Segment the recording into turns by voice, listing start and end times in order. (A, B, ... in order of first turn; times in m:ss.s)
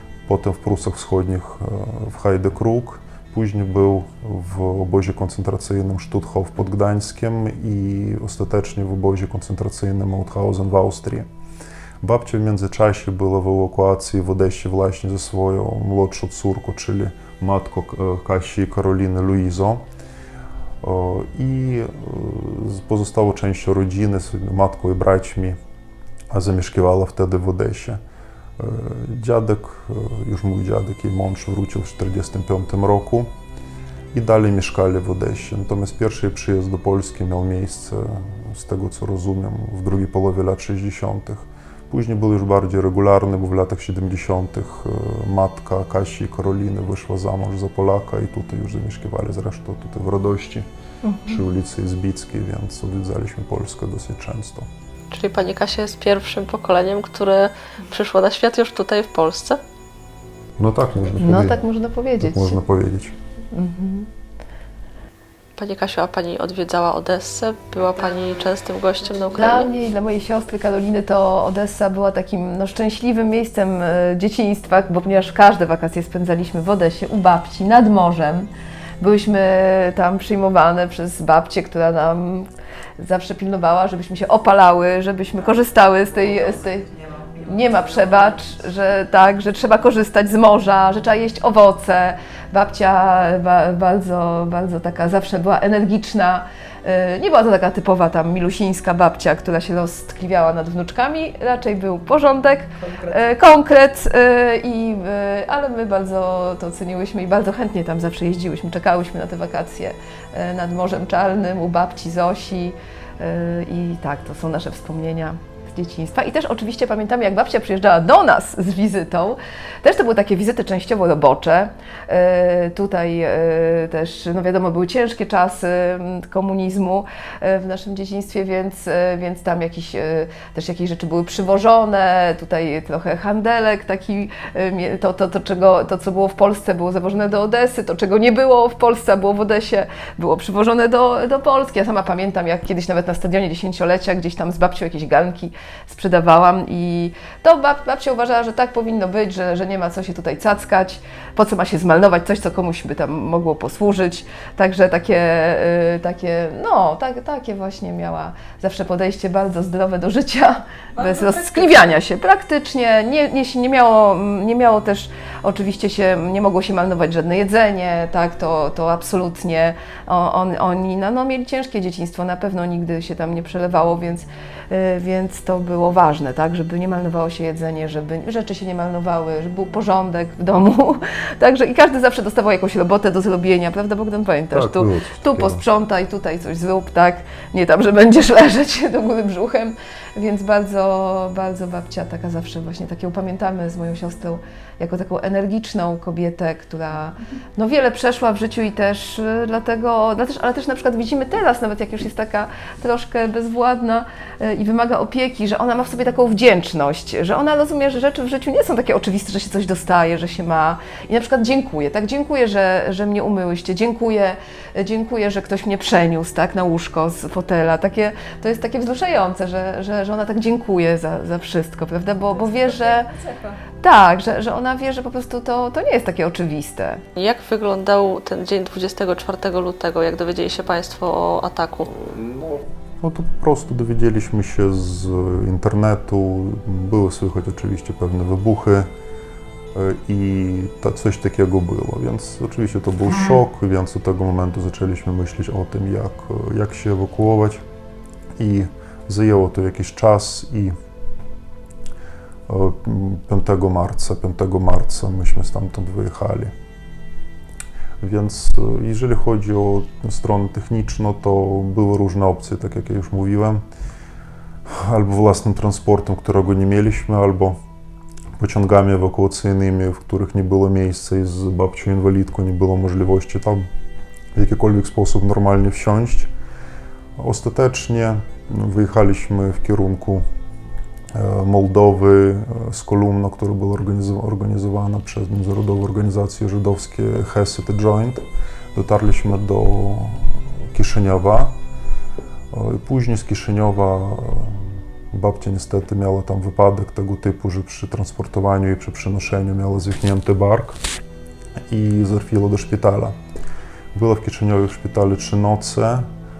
0:00.2-0:11.3 A
0:12.0-0:19.8 A
0:20.8-0:25.6 A
0:26.3-0:28.0 A
0:28.6-0:33.3 A
0:34.1-0:50.6 A
0:51.0-0:51.4 B
0:51.2-0:54.7 A
0:55.1-0:59.6 C
1:00.6-1:01.6 A
1:01.2-1:02.6 B
1:02.2-1:03.2 A
1:03.5-1:04.1 B
1:05.6-1:09.7 C
1:09.3-1:18.5 B
1:19.0-3:43.1 B
2:41.0-2:41.7 C
3:04.5-3:05.6 A
3:43.8-3:47.0 B
3:47.2-3:51.9 C
3:51.8-3:58.9 A
3:59.7-4:07.6 A
4:08.4-4:10.7 A
4:12.5-4:16.5 A
4:18.0-4:23.6 A
4:24.7-4:27.6 A
4:28.4-4:33.6 A
4:34.3-4:36.3 A
4:37.2-4:40.2 A
4:41.1-4:51.5 A
4:52.5-5:00.8 A
5:01.7-5:03.1 A
5:03.9-5:06.1 A